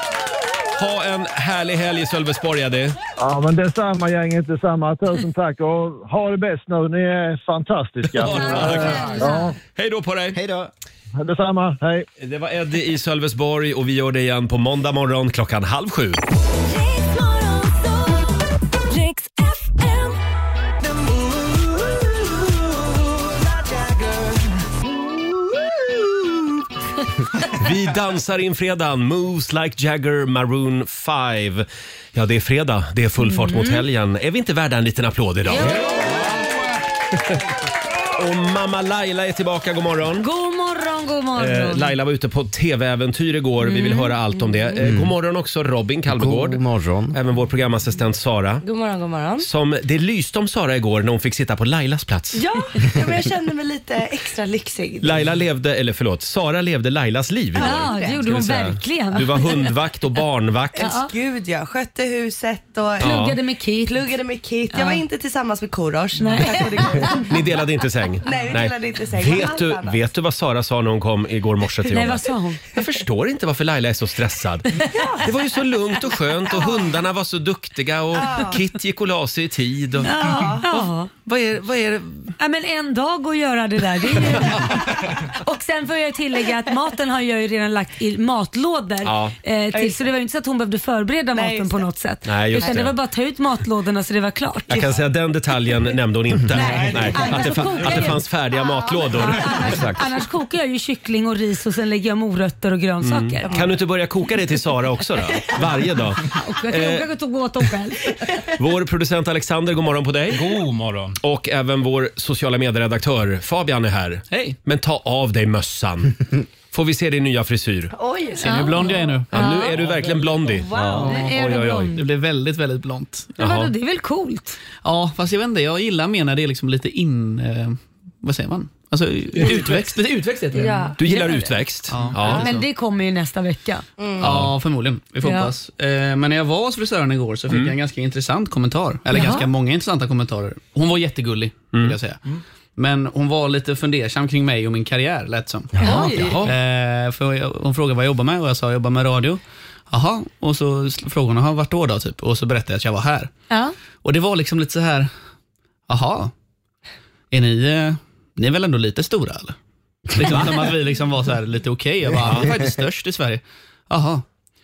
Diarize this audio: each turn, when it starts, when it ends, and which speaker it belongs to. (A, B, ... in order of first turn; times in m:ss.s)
0:00.8-0:03.0 A
0:03.2-0:09.6 B
0:08.1-0:10.4 A
0:08.2-0:09.5 C
0:10.3-0:10.7 D
0:11.2-0:12.0 B
0:12.2-0:16.2 A
0:16.6-0:20.2 E
0:20.8-0:24.4 E
0:27.5-0:36.2 A
0:33.2-0:33.8 C
0:35.5-0:36.0 C
0:38.2-0:40.3 A
0:40.2-0:41.9 C
0:41.4-0:46.6 A
0:43.7-0:44.1 C
0:44.8-0:45.1 D
0:46.1-0:47.2 D
0:47.1-0:48.6 A
0:48.6-0:49.5 E
0:49.4-0:52.4 A
0:52.3-0:55.3 E
0:55.0-1:00.9 A
0:57.6-0:58.2 E
0:57.6-0:59.7 C
1:00.8-1:03.2 E
1:00.8-1:01.1 C
1:03.0-1:03.4 A
1:03.0-1:04.0 C
1:03.8-1:07.3 E
1:04.7-1:05.0 C
1:06.2-1:07.2 C
1:07.3-1:14.7 A
1:08.2-1:10.0 E
1:11.9-1:12.6 C
1:14.8-1:15.1 C
1:15.0-1:15.2 E
1:15.2-1:22.3 A
1:16.5-1:16.8 E
1:18.1-1:18.6 E
1:20.0-1:21.1 C
1:20.2-1:20.6 E
1:22.4-1:34.8 C
1:24.4-1:24.6 A
1:29.0-1:29.3 A
1:29.7-1:30.1 E
1:31.3-1:31.9 E
1:32.2-1:32.9 A
1:32.6-1:32.8 E
1:34.7-1:39.7 A
1:36.5-1:38.2 C
1:36.5-1:38.0 F
1:38.9-1:39.2 E
1:39.1-1:43.7 C
1:39.6-1:40.0 D
1:43.0-1:47.0 A
1:43.4-1:43.7 E
1:46.4-1:48.1 C
1:48.6-1:50.6 A
1:50.3-1:51.2 F
1:51.2-1:57.9 A
1:54.3-1:54.6 G
1:57.9-1:58.9 E
1:58.4-1:59.8 C
1:58.4-1:59.3 G
1:59.3-2:00.7 A
1:59.9-2:00.2 F
2:00.4-2:01.3 E
2:00.8-2:03.3 G
2:01.0-2:02.0 C
2:01.4-2:01.9 A
2:03.4-2:04.6 C
2:03.4-2:03.7 A
2:04.8-2:10.9 G
2:10.5-2:10.9 E
2:10.6-2:11.6 C
2:11.0-2:12.5 A
2:11.9-2:12.6 G
2:12.2-2:13.8 C
2:14.0-2:14.3 E
2:14.2-2:22.2 G
2:14.2-2:14.5 A
2:15.2-2:15.5 C
2:17.5-2:17.7 A
2:19.1-2:19.4 C
2:22.8-2:25.8 G
2:25.7-2:26.4 D
2:25.8-2:26.4 E
2:25.8-2:26.2 C
2:26.2-2:26.5 A
2:26.4-2:29.4 G
2:29.9-2:33.3 G
2:33.5-2:33.7 C
2:34.0-2:35.1 G
2:35.9-2:36.3 G
2:37.3-2:39.5 G
2:40.1-2:44.2 G
2:42.2-2:42.8 D